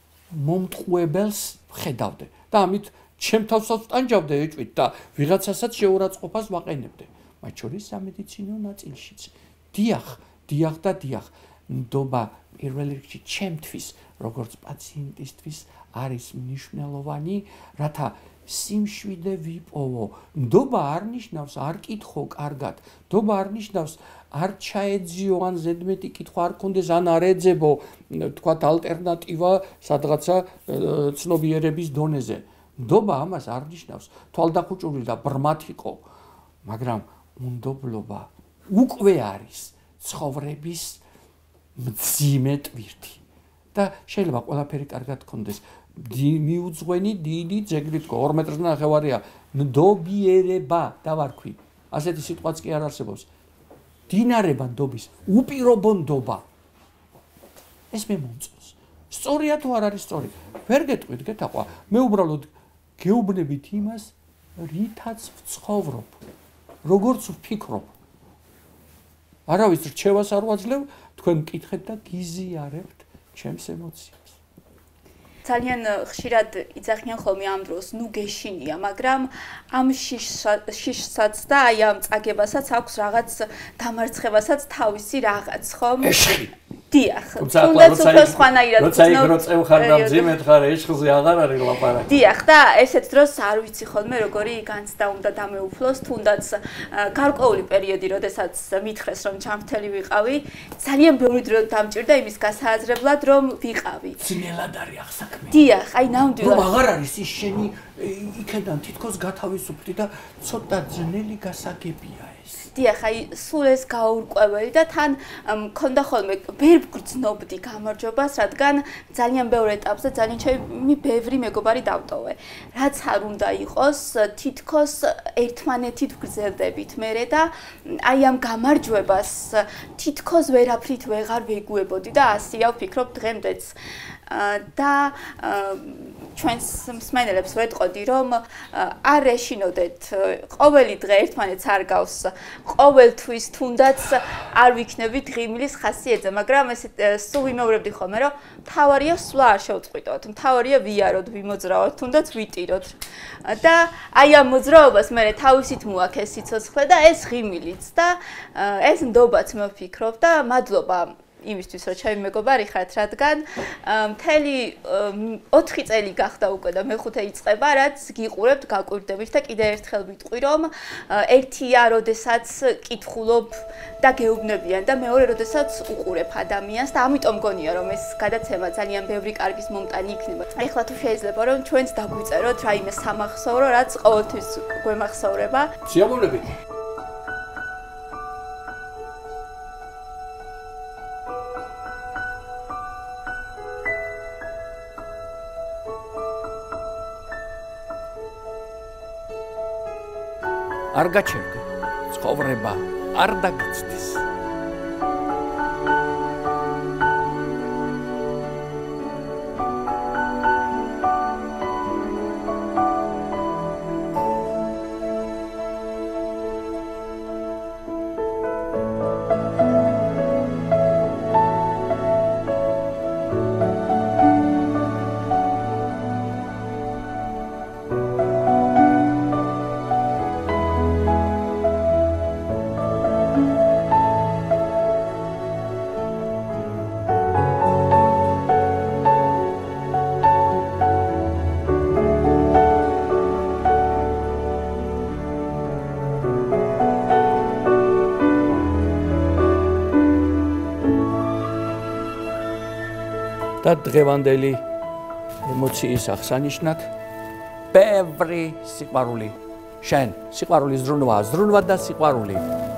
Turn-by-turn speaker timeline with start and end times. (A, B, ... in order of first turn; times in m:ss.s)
0:00.3-0:36.0 A
0:36.6-0:41.0 A
0:41.8-0:53.3 A
0:54.1-0:56.4 A
0:57.9-1:06.2 A
1:06.8-1:07.9 A
1:09.5-1:14.4 A
1:15.4-1:26.2 B
1:26.0-1:26.6 A
1:26.9-1:30.4 B
1:27.4-1:32.1 A
1:32.0-1:44.2 B
1:44.2-1:45.6 A
1:45.5-1:46.7 B
1:46.4-1:52.7 A
1:52.7-2:13.7 B
2:14.3-3:05.7 B
3:05.8-3:06.5 A
3:20.9-3:24.2 A
4:13.6-4:14.6 A
4:15.4-4:16.9 A
4:17.7-4:22.4 A